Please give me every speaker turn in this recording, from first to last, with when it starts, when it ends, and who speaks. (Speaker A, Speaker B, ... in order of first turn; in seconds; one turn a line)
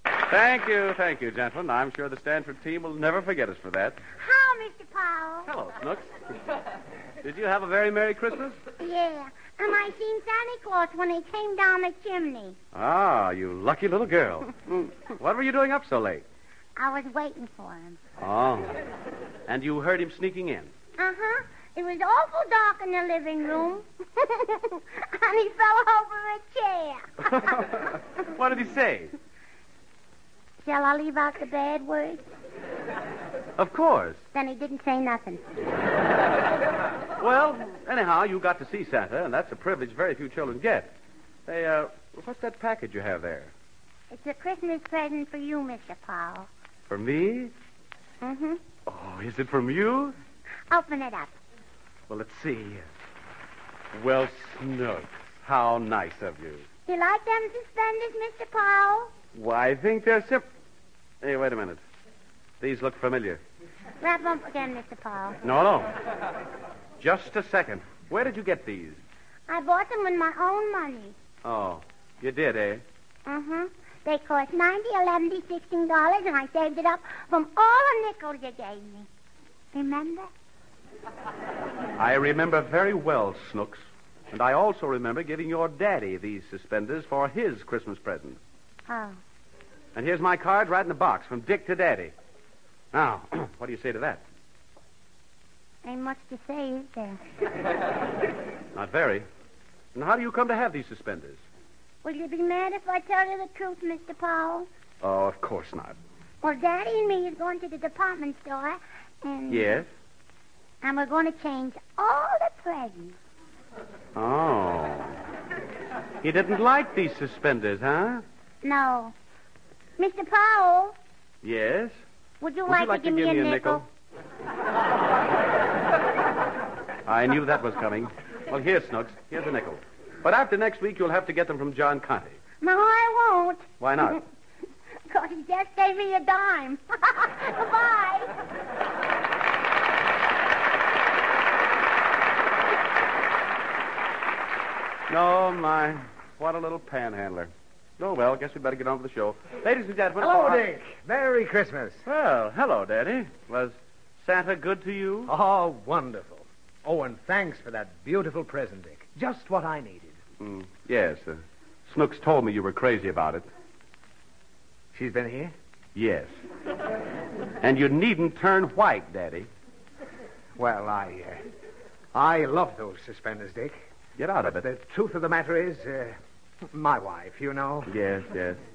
Speaker A: 0.3-4.0
Speaker B: 4.2-5.5
Speaker A: 5.5-6.1
Speaker A: 7.2-8.6
Speaker B: 8.8-12.6
Speaker A: 12.7-16.2
Speaker B: 16.8-18.0
Speaker A: 18.2-18.8
Speaker A: 19.5-20.7
Speaker B: 21.0-27.1
Speaker A: 27.2-29.1
Speaker B: 30.6-32.3
Speaker A: 33.6-34.2
Speaker B: 34.3-35.4
Speaker A: 37.2-40.9
Speaker A: 41.5-43.5
Speaker B: 44.1-46.5
Speaker A: 46.9-47.5
Speaker B: 48.2-48.6
Speaker A: 48.9-50.2
Speaker B: 50.7-51.3
Speaker A: 52.1-52.9
Speaker A: 53.9-56.7
Speaker B: 56.9-59.1
Speaker A: 59.3-60.4
Speaker A: 61.2-61.8
Speaker A: 62.6-63.4
Speaker B: 64.0-65.4
Speaker A: 65.4-65.9
Speaker A: 67.0-69.0
Speaker B: 69.5-71.2
Speaker A: 71.4-72.8
Speaker B: 73.2-79.1
Speaker B: 79.7-80.3
Speaker A: 82.0-88.4
Speaker B: 88.9-89.2
Speaker A: 89.9-92.1
Speaker A: 92.9-94.2
Speaker B: 95.8-97.2
Speaker A: 98.8-99.2
Speaker A: 99.9-101.4
Speaker B: 102.0-104.7
Speaker A: 105.0-106.0
Speaker B: 106.4-109.8
Speaker A: 109.5-109.9
Speaker B: 110.8-113.2
Speaker A: 114.2-115.2
Speaker A: 116.2-118.2
Speaker B: 118.6-119.2
Speaker B: 120.0-121.0
Speaker A: 121.4-121.9
Speaker B: 122.4-123.8
Speaker A: 122.7-123.8
Speaker A: 127.1-132.4
Speaker B: 132.6-134.2
Speaker A: 133.8-134.2
Speaker B: 135.1-138.3
Speaker A: 145.1-150.7
Speaker C: 150.2-152.0
Speaker A: 152.0-155.3
Speaker C: 155.2-160.2
Speaker A: 160.4-163.5
Speaker C: 164.9-165.5
Speaker A: 165.9-166.3
Speaker A: 167.6-169.5
Speaker C: 170.6-171.4
Speaker C: 172.1-173.8
Speaker A: 174.2-174.6
Speaker C: 174.4-176.2
Speaker C: 176.7-177.9
Speaker A: 177.9-178.6